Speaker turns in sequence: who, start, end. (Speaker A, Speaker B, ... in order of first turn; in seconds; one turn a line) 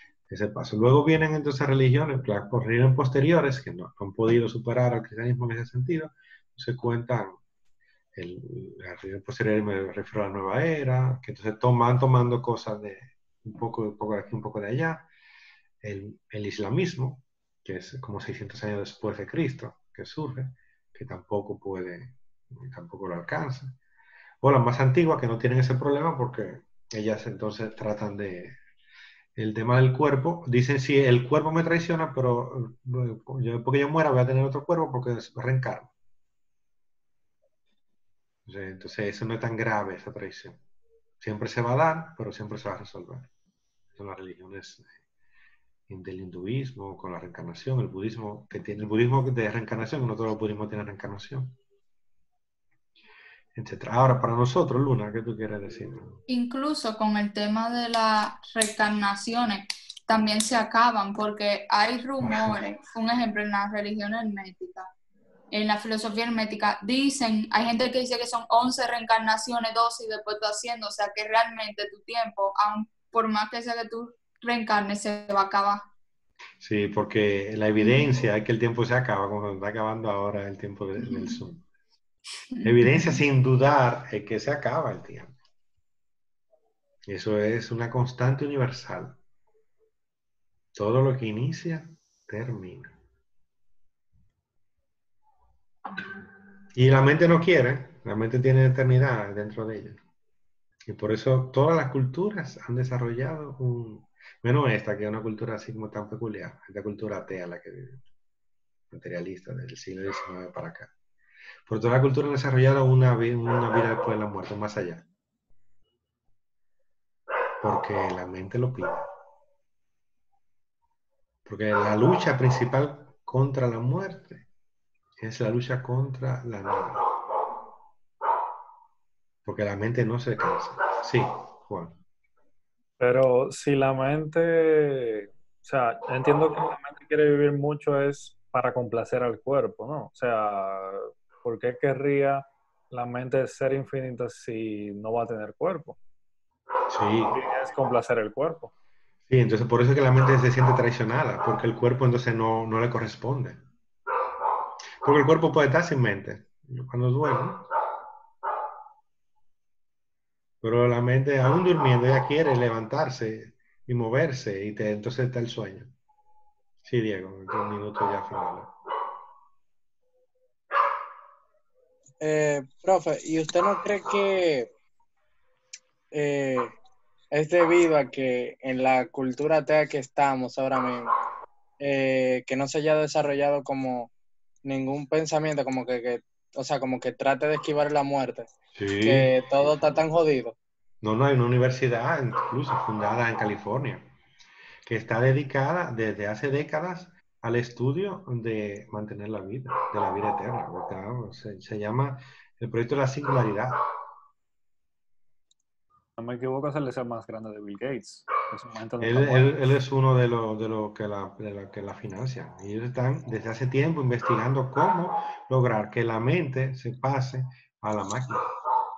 Speaker A: 0.3-7.4
Speaker A: 8.1-15.1
Speaker A: 15.8-23.8
Speaker A: 24.4-28.6
Speaker A: 29.4-35.9
Speaker A: 38.5-40.6
Speaker A: 41.2-43.3
Speaker A: 43.9-44.9
Speaker A: 45.9-51.6
Speaker A: 53.5-56.2
Speaker B: 56.3-64.9
Speaker A: 62.2-62.7
Speaker B: 65.5-75.9
Speaker A: 76.6-81.7
Speaker B: 77.8-78.2
Speaker B: 81.0-81.4
Speaker B: 82.5-83.2
Speaker A: 82.6-85.3
Speaker A: 87.1-89.2
Speaker A: 90.7-93.0
Speaker A: 96.7-100.0
Speaker A: 100.9-108.0
Speaker A: 108.9-110.9
Speaker A: 111.7-115.0
Speaker A: 117.6-119.1
Speaker A: 121.5-124.5
Speaker A: 125.2-127.0
Speaker A: 129.4-132.0
Speaker C: 133.0-146.0
Speaker A: 146.9-147.4
Speaker C: 147.3-148.7
Speaker A: 149.3-153.7
Speaker A: 155.0-157.7
Speaker A: 160.6-165.9
Speaker A: 166.8-168.7
Speaker D: 172.2-174.7
Speaker D: 176.1-176.8
Speaker D: 177.3-181.1
Speaker D: 181.8-184.1
Speaker D: 184.6-188.5
Speaker A: 188.7-190.1
Speaker D: 189.0-190.5
Speaker A: 191.0-194.1
Speaker A: 194.8-203.8
Speaker C: 206.2-209.6
Speaker A: 209.0-218.5